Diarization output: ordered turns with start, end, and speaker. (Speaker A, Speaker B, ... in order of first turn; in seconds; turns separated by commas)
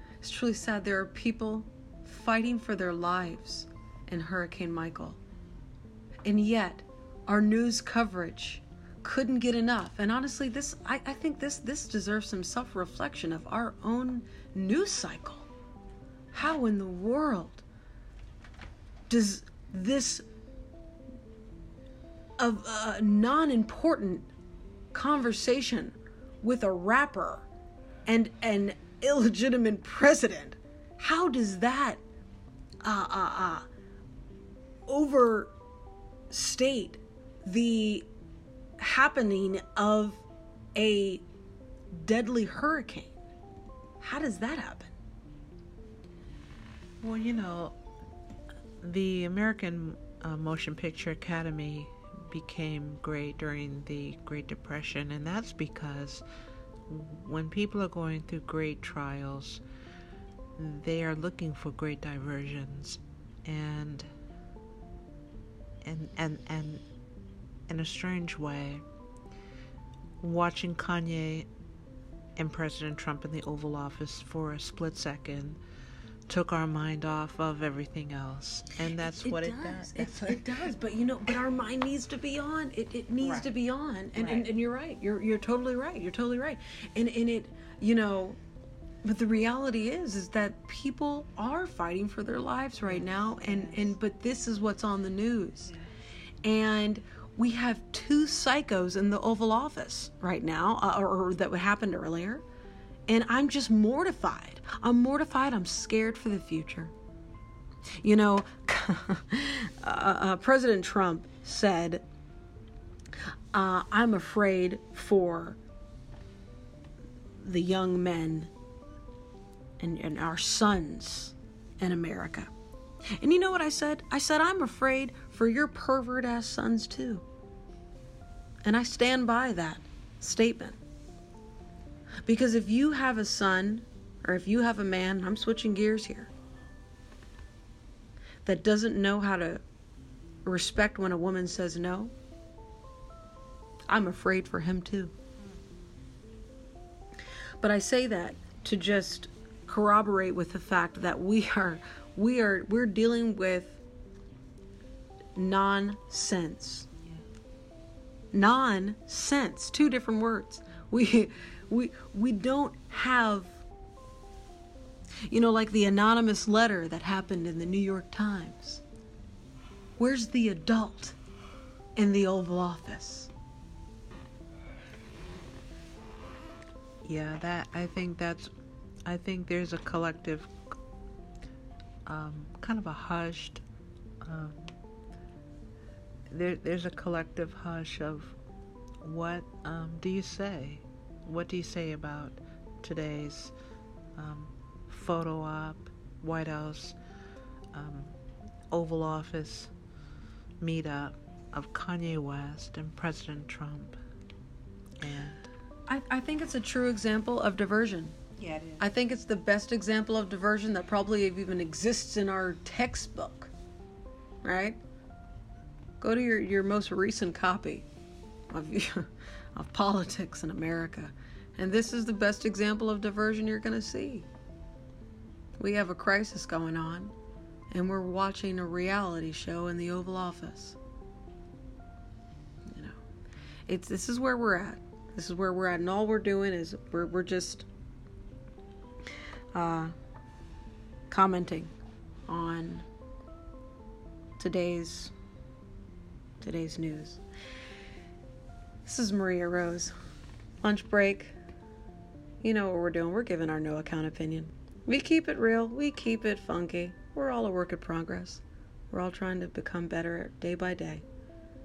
Speaker A: 0.2-5.2, Speaker A: 6.2-15.4, Speaker A: 16.3-17.6, Speaker A: 19.1-20.2, Speaker A: 22.4-24.3, Speaker A: 24.9-27.4, Speaker A: 28.1-32.0, Speaker A: 32.8-33.7, Speaker A: 34.9-35.5, Speaker A: 36.3-38.1, Speaker A: 38.8-40.2, Speaker A: 40.8-41.2, Speaker A: 41.9-43.1, Speaker A: 44.0-44.9, Speaker B: 47.0-47.7, Speaker B: 48.8-56.2, Speaker B: 56.9-59.6, Speaker B: 60.6-64.1, Speaker B: 65.8-66.8, Speaker B: 67.7-68.8, Speaker B: 70.2-71.5, Speaker B: 72.4-75.6, Speaker B: 76.3-80.4, Speaker A: 79.0-88.4, Speaker B: 84.2-84.5, Speaker A: 89.0-95.7, Speaker B: 92.8-93.9, Speaker A: 96.4-102.4, Speaker A: 103.1-106.9, Speaker A: 108.0-112.0, Speaker A: 113.5-115.6, Speaker A: 117.4-118.5, Speaker A: 119.8-122.5, Speaker A: 123.2-127.2, Speaker A: 128.6-130.8, Speaker A: 132.2-136.3, Speaker A: 138.4-139.6, Speaker A: 140.4-142.1, Speaker A: 143.9-145.1, Speaker A: 147.6-153.8, Speaker A: 155.3-156.9, Speaker A: 158.3-163.6, Speaker A: 165.3-168.8, Speaker A: 170.0-171.2, Speaker A: 171.9-173.3, Speaker B: 177.0-178.5, Speaker B: 179.1-180.5, Speaker B: 182.1-183.6, Speaker B: 184.2-184.7, Speaker B: 186.3-188.3, Speaker B: 189.0-193.5, Speaker B: 194.2-196.9, Speaker B: 197.7-198.2, Speaker B: 198.7-199.7, Speaker B: 200.6-204.0, Speaker B: 205.0-205.4, Speaker A: 205.9-208.2, Speaker B: 208.4-208.8, Speaker A: 208.8-213.5, Speaker A: 214.4-214.8, Speaker A: 216.0-217.9, Speaker A: 218.5-224.3, Speaker A: 225.6-227.1, Speaker A: 227.7-230.8, Speaker A: 232.7-233.0, Speaker A: 233.7-237.7, Speaker A: 239.5-239.9, Speaker A: 241.1-241.7, Speaker A: 242.3-242.8, Speaker A: 244.4-245.1, Speaker A: 246.4-247.2, Speaker A: 248.8-249.9, Speaker A: 250.6-251.3, Speaker A: 252.4-261.0